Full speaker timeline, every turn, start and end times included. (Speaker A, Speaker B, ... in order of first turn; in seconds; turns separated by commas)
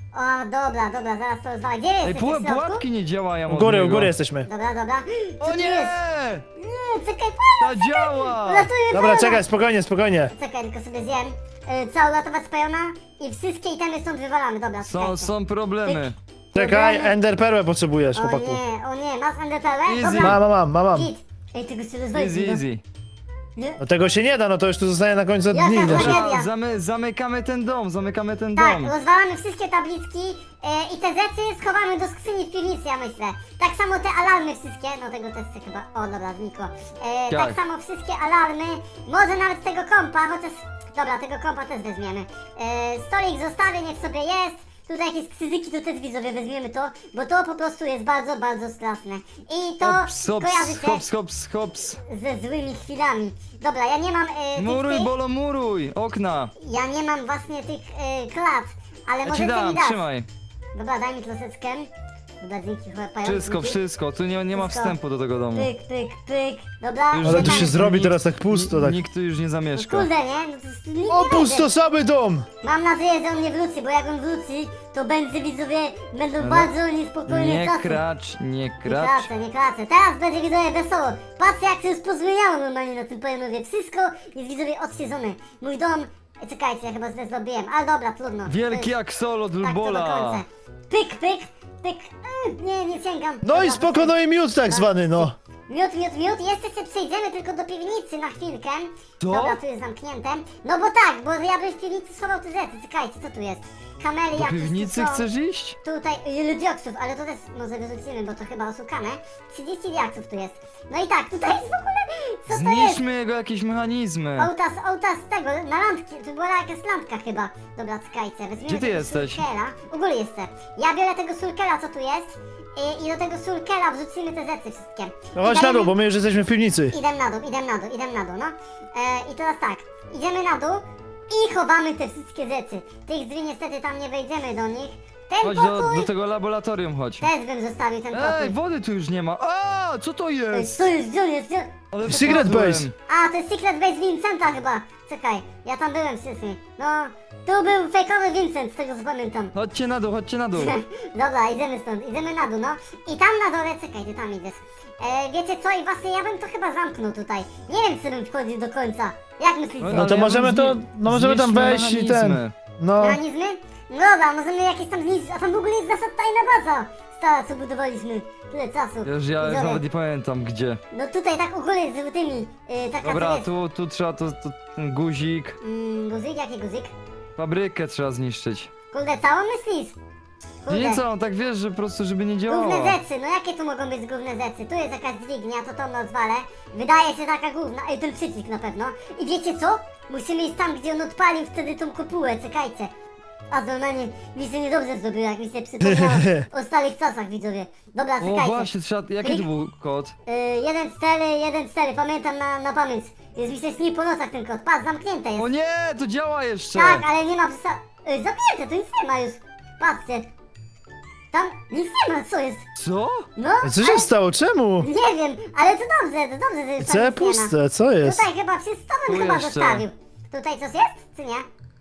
Speaker A: 0.1-2.8, Speaker B: 2.0-4.1, Speaker C: 3.5-4.5, Speaker A: 4.5-6.0, Speaker B: 5.4-6.5, Speaker A: 6.6-9.4, Speaker B: 7.6-8.7, Speaker C: 8.9-10.3, Speaker A: 10.3-15.3, Speaker B: 14.8-16.2, Speaker A: 15.8-17.1, Speaker C: 16.6-18.6, Speaker A: 18.1-22.6, Speaker B: 19.9-20.4, Speaker C: 20.1-21.1, Speaker B: 22.1-22.8, Speaker C: 23.8-26.2, Speaker A: 25.5-26.5, Speaker B: 25.9-28.9, Speaker A: 28.6-51.0, Speaker B: 37.3-37.6, Speaker B: 49.8-52.0, Speaker A: 52.0-55.1, Speaker B: 54.6-56.5, Speaker A: 56.6-60.0, Speaker B: 59.2-60.3, Speaker A: 60.8-61.9, Speaker A: 62.4-63.8, Speaker B: 63.2-65.7, Speaker A: 64.5-65.0, Speaker A: 65.5-67.8, Speaker B: 67.1-70.1, Speaker C: 67.2-69.0, Speaker A: 69.8-71.7, Speaker C: 71.1-72.5, Speaker A: 72.6-78.0, Speaker B: 76.4-76.7, Speaker B: 77.3-79.3, Speaker A: 78.8-88.9, Speaker B: 88.5-90.4, Speaker A: 89.6-94.1, Speaker C: 93.5-95.3, Speaker A: 94.7-105.3, Speaker B: 99.2-99.6, Speaker B: 104.3-105.8, Speaker A: 105.8-113.0, Speaker B: 112.5-114.5, Speaker A: 114.4-125.9, Speaker B: 118.7-119.4, Speaker C: 125.3-127.0, Speaker A: 126.9-136.1, Speaker B: 135.4-137.3, Speaker A: 137.2-138.6, Speaker B: 138.1-140.9, Speaker A: 140.5-142.5, Speaker B: 141.9-142.9, Speaker C: 142.0-142.9, Speaker A: 143.1-149.5, Speaker B: 149.5-150.8, Speaker A: 150.5-160.2, Speaker B: 159.8-162.5, Speaker C: 159.9-163.2, Speaker A: 163.0-169.8, Speaker B: 169.0-170.8, Speaker A: 170.9-173.5, Speaker B: 173.0-175.6, Speaker A: 175.6-176.9, Speaker B: 177.4-178.7, Speaker A: 178.9-180.0, Speaker A: 180.7-181.0, Speaker B: 180.7-183.0, Speaker A: 182.5-192.9, Speaker A: 193.5-198.7, Speaker C: 195.8-196.4, Speaker B: 198.2-200.2, Speaker A: 200.3-205.5, Speaker B: 205.4-207.1, Speaker A: 206.8-210.3, Speaker A: 211.3-212.7, Speaker B: 212.8-213.3, Speaker A: 213.4-214.1, Speaker C: 213.6-214.9, Speaker A: 214.8-221.5, Speaker C: 216.8-218.2, Speaker B: 219.1-219.9